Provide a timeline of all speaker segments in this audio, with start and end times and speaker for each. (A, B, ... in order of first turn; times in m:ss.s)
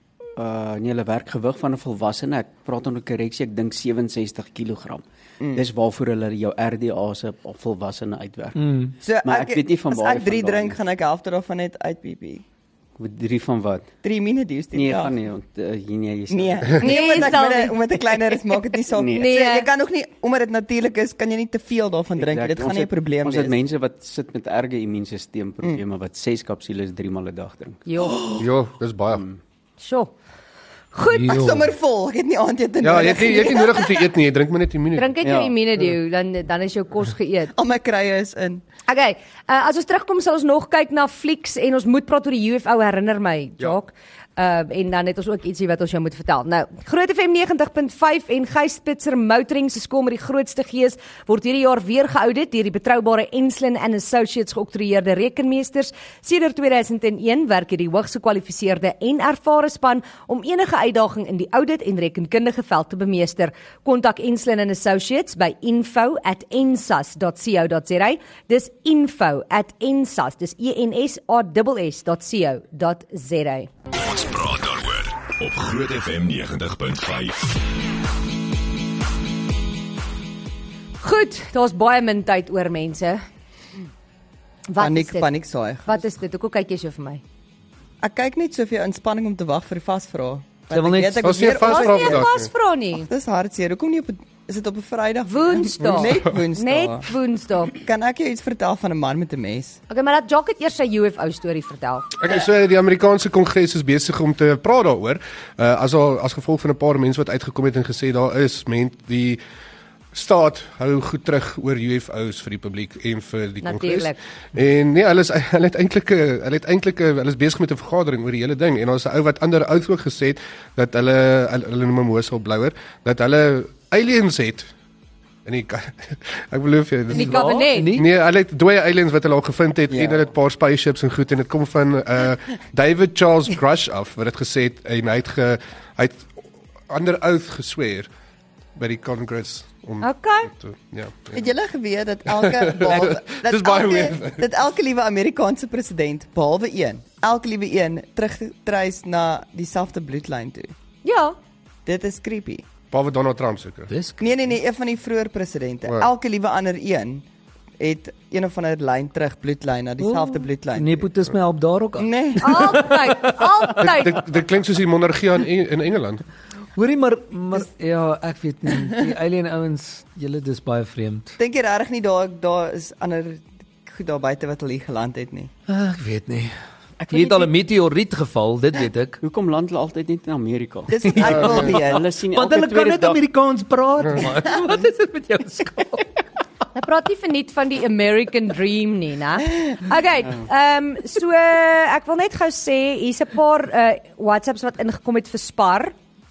0:00.3-0:10.8 A
0:08.6-0:08.9 B
0:09.0-0:12.4 C
0:13.0-0:13.9 A
0:14.0-0:15.1 C
0:14.7-0:17.1 A
0:16.3-0:23.5 C
0:16.8-0:17.8 D
0:18.9-0:19.3 A
0:19.1-0:19.7 D
0:22.2-0:28.4 A
0:27.9-0:28.4 D
0:28.4-0:29.2 E
0:29.1-0:29.4 A
0:29.8-0:30.1 D
0:30.9-0:31.5 D
0:31.1-0:31.7 B
0:31.3-0:34.0 C
0:32.8-0:35.2 E
0:34.9-0:37.5 D
0:35.2-0:35.9 A
0:37.5-0:38.6 C
0:38.9-1:13.7 D
1:14.0-1:17.6 F
1:21.0-1:23.2 D
1:24.7-1:25.3 D
1:24.8-1:26.0 C
1:25.9-1:27.2 D
1:28.0-1:32.3 C
1:30.7-1:31.4 B
1:31.2-1:32.5 E
1:31.5-1:33.1 D
1:32.9-1:37.1 C
1:35.2-1:37.7 D
1:37.7-1:39.8 C
1:39.9-1:42.1 D
1:42.2-1:49.4 E
1:50.1-2:04.7 E
1:53.6-1:54.2 D
2:05.4-2:16.3 E
2:07.1-2:08.0 D
2:07.1-2:08.1 B
2:09.9-2:10.2 C
2:16.9-2:18.1 E
2:18.7-2:21.4 E
2:20.0-2:20.5 D
2:21.3-2:30.7 C
2:22.3-2:24.4 E
2:22.9-2:23.2 B
2:31.0-2:31.4 D
2:31.8-2:32.6 C
2:32.9-2:33.9 E
2:33.9-2:34.2 B
2:34.2-2:37.2 C
2:37.8-2:41.1 C
2:40.0-2:43.4 B
2:42.0-2:42.9 C
2:42.4-2:44.2 D
2:43.8-2:46.2 E
2:46.8-2:51.4 B
2:51.4-2:55.5 C
2:55.7-2:56.5 B
2:57.0-2:57.5 C
2:57.1-2:59.2 B
2:59.2-3:03.2 A
3:00.9-3:02.1 C
3:01.2-3:01.7 E
3:01.8-3:06.2 B
3:06.7-3:15.9 D